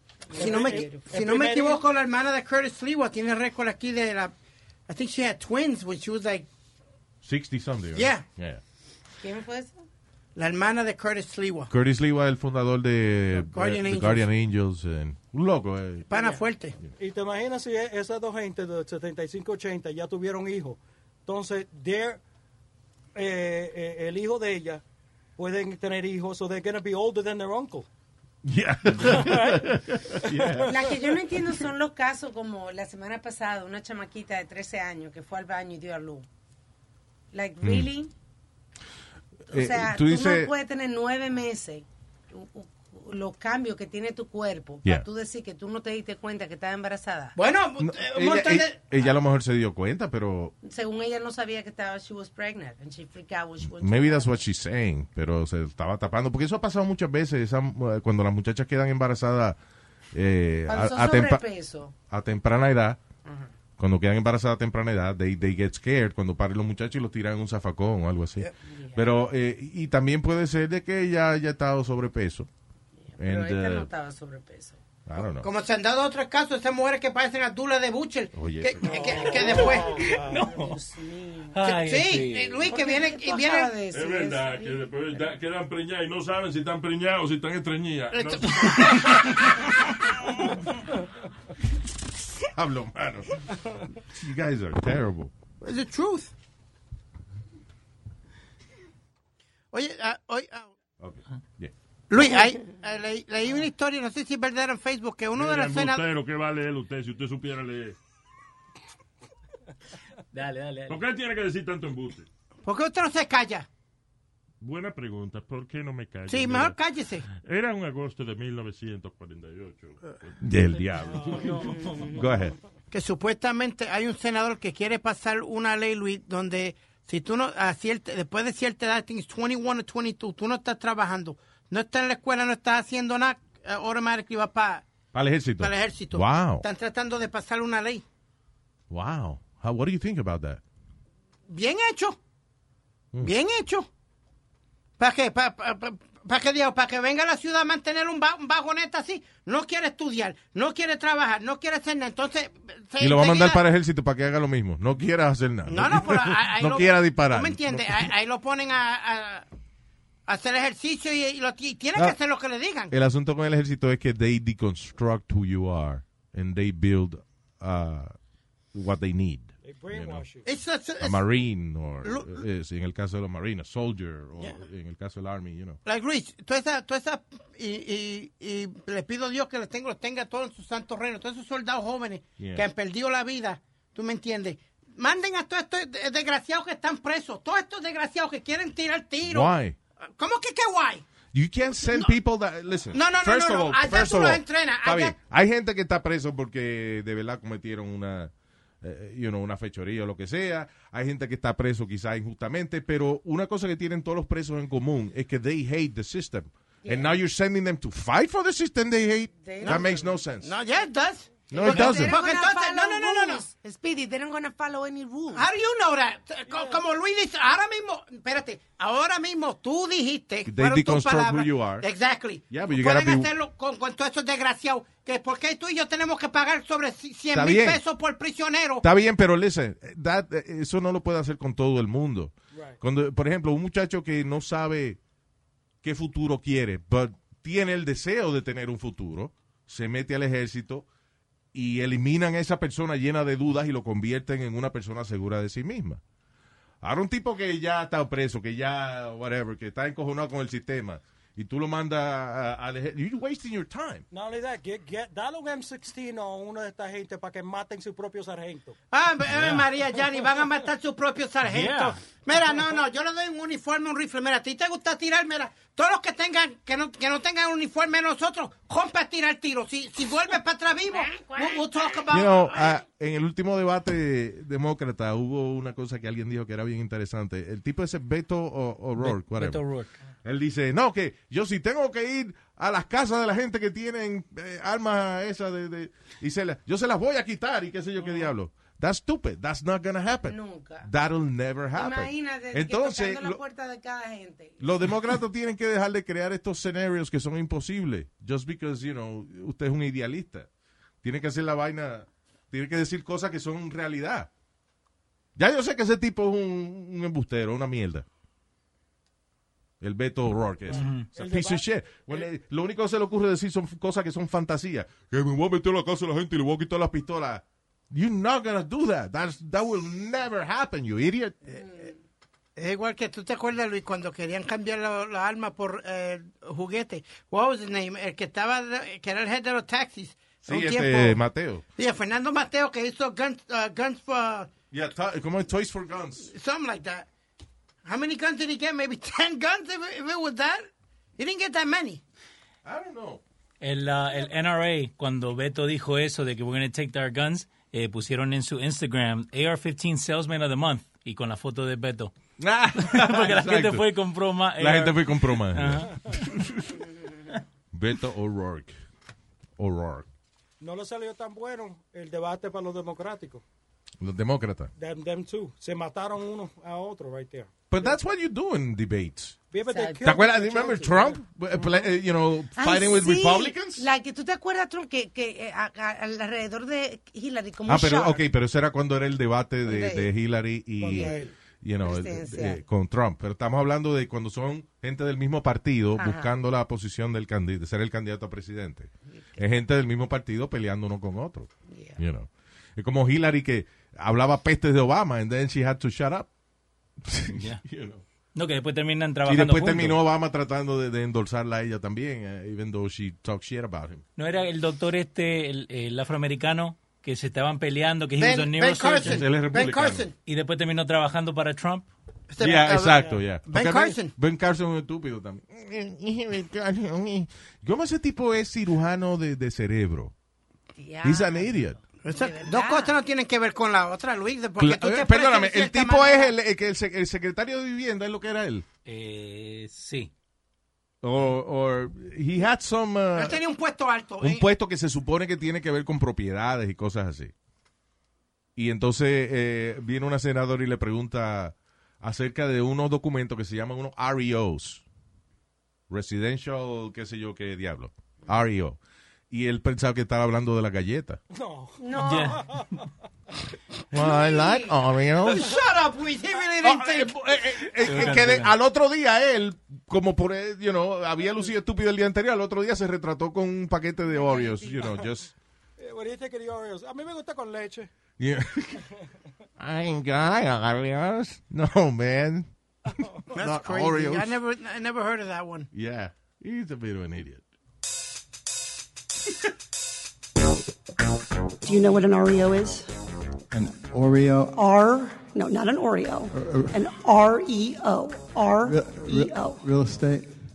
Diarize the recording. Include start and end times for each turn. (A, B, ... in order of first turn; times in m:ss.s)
0:00.3-0:01.1 A
0:00.4-0:01.8 B
0:00.4-0:04.3 C
0:04.9-0:06.5 C
0:07.2-0:08.6 D
0:07.9-0:08.2 C
0:09.2-0:09.8 A
0:10.4-0:11.7 C
0:11.7-0:16.1 D
0:13.4-0:14.3 C
0:16.1-0:16.8 C
0:16.1-0:16.4 A
0:17.0-0:22.2 B
0:23.1-0:24.8 B
0:25.4-0:27.8 B
0:28.4-0:30.8 D
0:29.0-0:29.6 B
0:30.3-0:30.7 B
0:30.7-0:36.3 A
0:37.3-0:38.1 A
0:37.6-0:37.9 D
0:39.5-0:47.4 A
0:39.5-0:40.5 D
0:47.4-0:48.9 C
0:47.8-0:50.5 D
0:50.6-0:54.3 A
0:53.6-0:59.6 D
1:00.1-1:01.4 D
1:00.7-1:01.9 A
1:02.1-1:03.0 D
1:03.2-1:03.5 A
1:03.8-1:12.5 D
1:08.6-1:09.1 A
1:13.0-1:14.8 A
1:13.2-1:13.9 D
1:15.0-1:15.5 D
1:15.4-1:19.9 C
1:18.3-1:19.0 D
1:18.9-1:21.7 A
1:18.9-1:20.3 B
1:20.3-1:20.6 E
1:21.5-1:22.6 E
1:21.6-1:23.8 C
1:22.6-1:24.9 A
1:23.9-1:29.7 F
1:28.1-1:29.1 C
1:32.4-1:33.4 D
1:34.0-1:35.3 D
1:35.6-1:36.3 C
1:39.7-1:40.7 C
1:41.0-1:41.7 D
1:42.1-1:46.0 C
1:45.3-1:48.0 F
1:50.3-1:51.0 E
1:50.9-1:52.3 F
1:52.6-1:53.7 C
1:54.6-1:56.8 F
1:56.3-1:57.2 C
1:57.3-2:00.4 F
2:00.4-2:01.5 D
2:01.3-2:01.6 F
2:01.6-2:02.1 A
2:02.0-2:02.6 D
2:02.9-2:14.9 C
2:15.1-2:16.6 D
2:15.6-2:18.0 C
2:18.9-2:20.6 D
2:21.5-2:22.2 C
2:23.2-2:23.9 C
2:25.0-2:33.6 C
2:33.0-2:38.1 D
2:35.7-2:39.5 C
2:40.3-2:42.9 C
2:42.9-2:48.1 D
2:48.7-2:50.2 D
2:49.6-2:50.4 B
2:50.4-2:51.2 C
2:51.0-2:55.8 D
2:52.0-2:52.4 C
2:55.8-3:09.5 C
3:02.4-3:02.7 D
3:09.2-3:09.8 D
3:10.2-3:11.1 C
3:11.3-3:30.5 D
3:11.8-3:12.1 C
3:12.9-3:15.2 C
3:26.8-3:27.1 A
3:29.4-3:30.2 A
3:30.4-3:33.4 C
3:31.5-3:32.2 D
3:31.6-3:35.5 A
3:35.3-3:48.8 C
3:36.5-3:36.8 B
3:40.4-3:41.9 D
3:42.5-3:43.3 D
3:47.3-3:47.8 D
3:48.8-3:55.0 D
3:52.5-3:52.8 B
3:55.8-4:00.9 D
4:01.5-4:06.0 D
4:06.8-4:14.0 D
4:14.1-4:18.8 B
4:18.9-4:32.8 C
4:19.3-4:19.6 E
4:21.5-4:22.0 E
4:30.9-4:32.0 A
4:32.1-4:39.6 D
4:39.0-4:39.9 E
4:40.2-4:53.4 D
4:50.3-4:50.9 A
4:51.7-4:54.9 A
4:54.6-5:00.5 D
5:01.0-5:04.3 D
5:05.4-5:08.0 D
5:09.8-5:21.9 D
5:10.7-5:12.3 B
5:10.7-5:11.1 E
5:21.6-5:21.9 A
5:22.6-5:31.2 C
5:30.4-5:31.6 D
5:31.8-5:34.5 C
5:34.7-5:36.3 D
5:36.3-5:37.1 C
5:37.8-5:42.0 C
5:42.6-5:43.2 D
5:43.6-5:52.1 E
5:52.4-5:53.8 D
5:52.8-5:56.4 E
5:54.6-5:56.5 D
5:57.7-5:58.7 D
5:59.6-6:00.1 D
6:00.6-6:03.4 B
6:04.0-6:04.7 D
6:04.8-6:08.0 B
6:07.7-6:09.4 D
6:09.5-6:11.2 B
6:09.7-6:10.9 A
6:10.0-6:13.8 D
6:12.6-6:18.2 A
6:17.7-6:36.3 D
6:19.6-6:20.1 A
6:20.8-6:21.3 B
6:20.8-6:21.3 A
6:21.8-6:22.6 A
6:26.0-6:26.3 A
6:29.1-6:29.4 A
6:31.7-6:32.0 A
6:37.0-6:38.0 D
6:37.3-6:37.6 E
6:38.3-6:40.0 E
6:39.2-6:44.0 D
6:44.2-6:49.2 E
6:48.2-6:50.1 C
6:49.0-6:50.1 D
6:50.2-6:51.9 E
6:52.3-6:54.1 C
6:52.4-7:00.1 D
7:00.8-7:03.0 A
7:01.0-7:01.8 D
7:02.0-7:06.3 C
7:04.6-7:08.6 D
7:08.8-7:10.1 E
7:11.0-7:13.4 D
7:13.1-7:14.4 C
7:14.2-7:17.3 D
7:18.6-7:24.8 D
7:25.9-7:28.8 D
7:29.3-7:31.2 D
7:31.3-7:32.6 B
7:31.8-7:32.4 A
7:31.9-7:32.5 E
7:33.9-7:35.5 D
7:33.9-7:34.8 A
7:35.2-7:37.1 C
7:36.6-7:45.3 D
7:37.8-7:38.5 E
7:44.1-7:45.0 A
7:45.8-7:47.9 B
7:48.2-7:48.8 D
7:49.6-7:52.5 D
7:53.3-7:55.7 C
7:53.4-7:54.4 D
7:55.7-7:57.4 D
8:01.6-8:02.9 G
8:03.5-8:04.6 H
8:04.6-8:09.6 G
8:06.3-8:06.8 H
8:08.6-8:10.3 H